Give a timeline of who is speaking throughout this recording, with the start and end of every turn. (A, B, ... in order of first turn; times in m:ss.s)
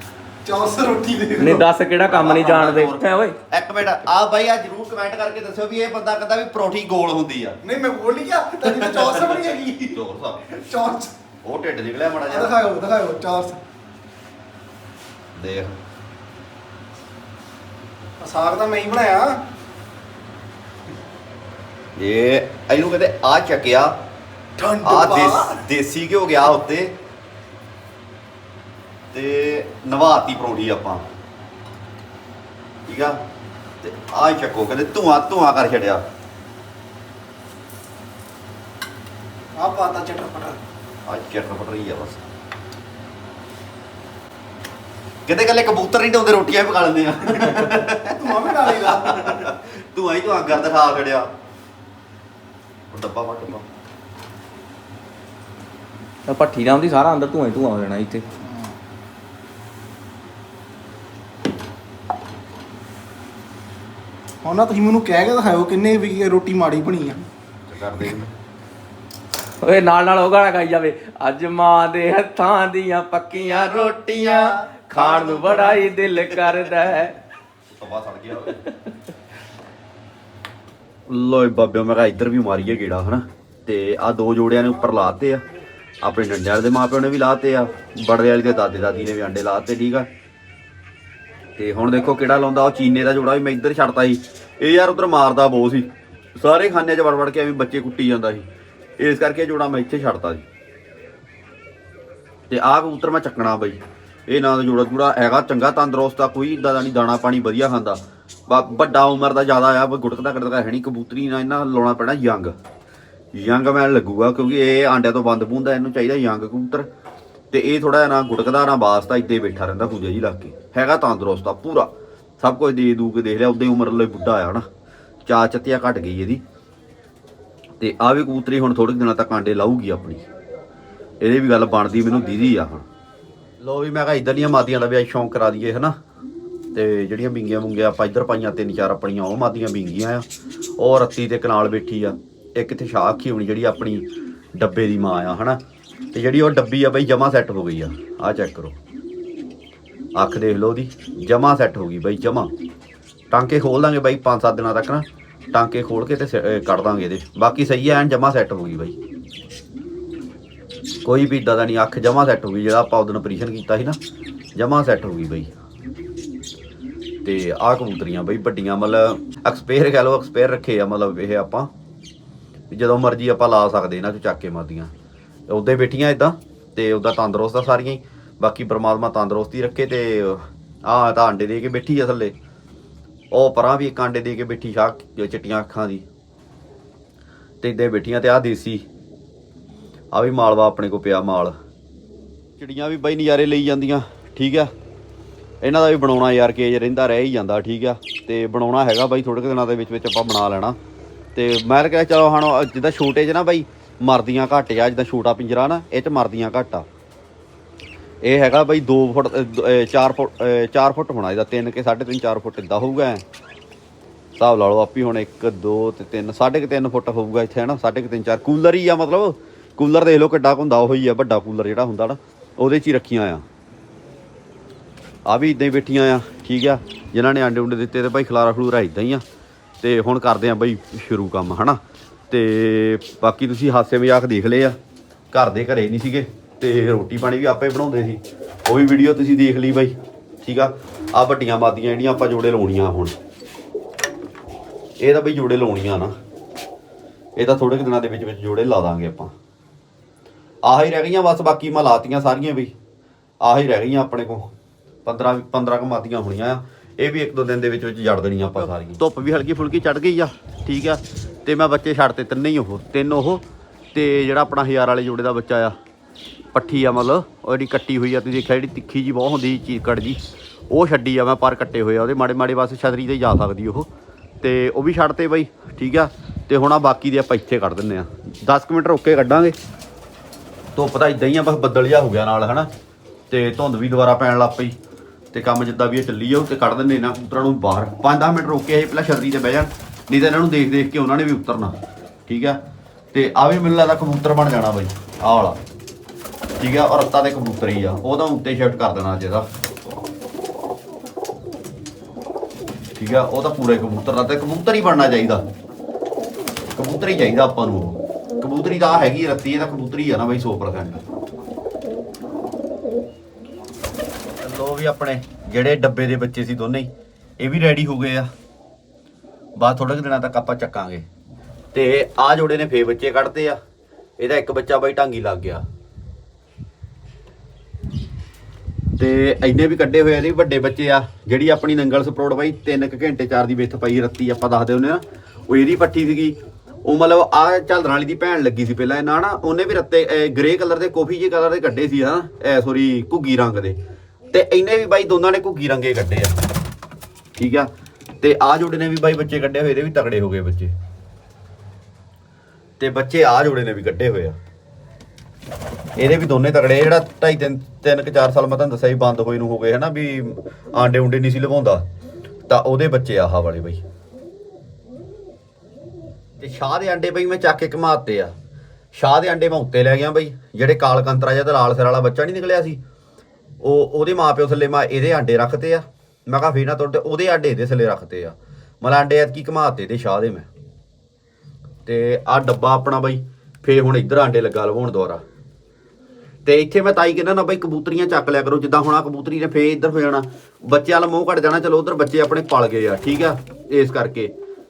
0:00.4-0:01.7 A
0:01.4-0:03.4 B
0:02.0-0:07.6 C
0:07.6-0:11.1 A
0:09.9-0:10.4 C
0:11.4-0:12.5 C
0:12.3-0:13.6 A
0:15.3-0:15.8 C
0:18.2-0:19.4 A
0:22.0-0:24.0 C
0:24.6-0:25.6 A
0:24.8-0:27.0 C
0:29.1-0:31.0 C
0:32.9-0:33.2 C
0:33.8-0:36.0 C
0:39.6-0:40.6 A
0:41.0-0:42.2 C
0:45.2-0:51.3 C
0:48.0-0:49.5 A
0:52.9-0:53.6 C
0:56.3-0:58.2 B
1:04.4-1:07.2 A
1:07.6-1:08.3 C
1:09.6-1:17.1 B
1:13.8-1:16.9 C
1:17.8-1:18.6 C
1:21.1-1:25.4 C
1:26.0-1:30.1 C
1:31.6-1:38.4 C
1:39.0-1:40.4 C
1:42.5-1:52.6 C
1:53.3-1:56.9 C
1:57.5-2:04.6 C
2:05.2-2:06.4 C
2:07.8-2:10.3 C
2:11.2-2:12.8 C
2:13.6-2:15.9 C
2:16.7-2:20.2 C
2:20.8-2:25.6 C
2:26.1-2:28.8 C
2:30.1-2:32.5 C
2:33.3-2:39.0 C
2:41.0-2:44.0 C
2:44.6-2:45.5 C
2:47.2-2:51.7 C
2:52.7-2:54.9 C
2:55.5-3:02.3 C
3:03.3-3:06.0 C
3:07.6-3:08.8 C
3:10.1-3:11.5 C
3:12.6-3:14.7 C
3:15.6-3:20.8 C
3:21.3-3:26.9 C
3:28.2-3:33.2 C
3:34.4-3:43.4 C
3:45.2-3:49.2 C
3:49.8-3:51.8 C
3:52.3-3:54.8 C
3:55.3-4:03.1 C
4:05.0-4:06.1 C
4:07.4-4:09.3 C
4:10.6-4:12.7 C
4:13.4-4:14.5 C
4:15.0-4:25.7 C
4:26.5-4:30.2 C
4:30.7-4:33.9 C
4:34.4-4:39.6 C
4:40.7-4:42.7 C
4:43.3-4:44.7 C
4:45.3-4:51.7 C
4:52.3-4:52.6 C
4:53.1-4:55.6 C
4:56.6-4:59.4 C
5:03.0-5:05.4 C
5:06.8-5:11.0 C
5:14.4-5:16.9 C
5:17.4-5:18.3 C
5:19.6-5:21.0 C
5:21.7-5:23.6 C
5:24.2-5:25.6 C
5:29.0-5:43.8 C
5:44.3-5:46.4 C
5:47.4-5:47.7 C
5:48.2-5:50.7 C
5:52.8-5:54.4 C
5:56.0-6:01.8 C
6:02.5-6:03.8 C
6:06.4-6:08.3 C
6:08.9-6:12.8 C
6:13.6-6:20.5 C
6:21.8-6:25.2 C
6:26.4-6:34.3 C